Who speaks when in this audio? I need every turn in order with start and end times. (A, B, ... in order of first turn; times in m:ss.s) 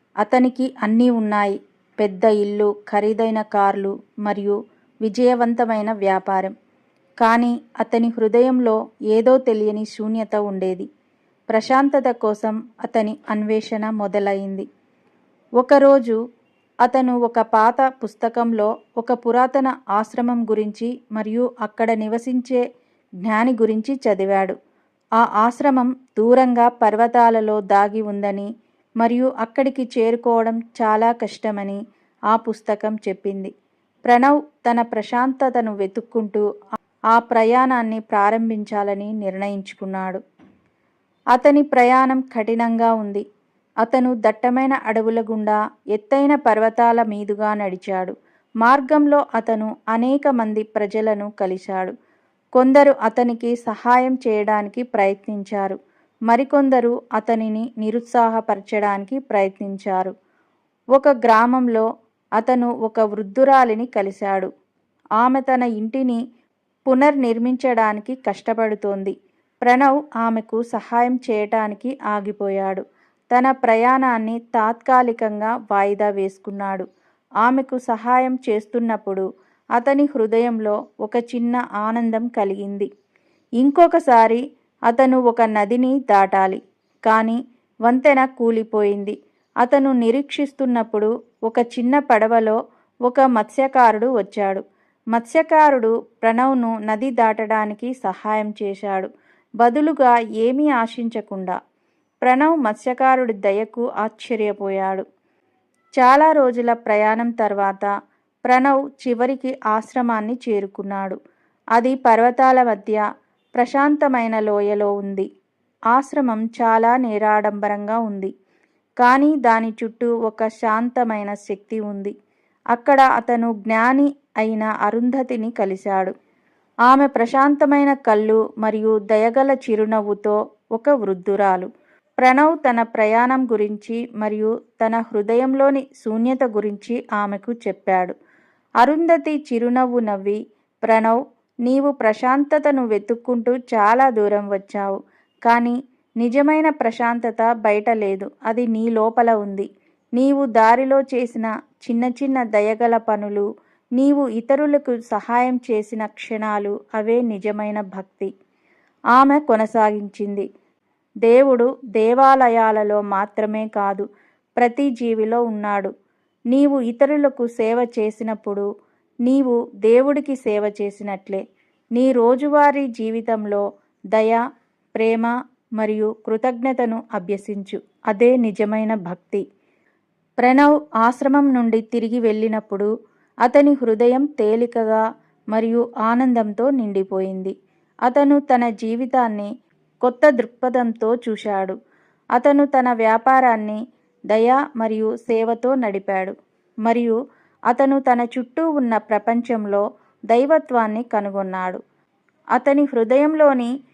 0:00.2-0:06.5 A
0:07.2-0:10.9 A
0:11.5-0:14.6 A
0:15.6-0:16.2 A
0:16.8-0:22.6 A
0:23.2-0:24.6 A
0:25.2-0:28.5 A
0:29.0-0:31.8 A
0:32.3-0:33.5 A
0:34.1-0:36.4 A
0:37.1-0:40.2 A
0:41.3-0:43.2 A
0:43.8-0:51.9 A
0:52.6-0:55.8 A
0:56.3-1:00.1 A
1:00.9-1:01.8 A
1:02.4-1:04.5 A
1:05.2-1:06.2 A
1:06.9-1:16.8 A
1:17.4-1:19.2 A
1:19.8-1:22.9 A
1:23.6-1:34.6 A
1:35.1-1:39.1 A
1:39.6-1:41.6 A
1:42.2-1:45.0 A
1:46.0-1:47.9 A
1:48.4-1:51.2 A
1:51.8-1:53.0 A
1:53.6-1:55.3 A
1:55.9-1:58.3 A
1:59.0-2:02.1 A
2:02.7-2:06.1 A
2:06.9-2:11.7 A
2:12.2-2:18.1 A
2:18.8-2:25.0 A
2:25.5-2:33.4 A
2:34.0-2:38.3 A
2:39.1-2:40.4 A
2:41.2-2:44.0 A
2:44.6-2:45.9 A
2:46.5-2:48.6 A
2:49.2-2:51.4 A
2:52.0-2:54.4 A
2:55.0-2:59.4 A
3:00.4-3:02.9 A
3:03.4-3:05.0 A
3:05.5-3:07.5 A
3:08.1-3:09.5 A
3:10.0-3:11.8 A
3:12.4-3:13.8 A
3:14.3-3:16.3 A
3:16.8-3:17.2 A
3:17.7-3:21.8 A
3:22.6-3:23.7 A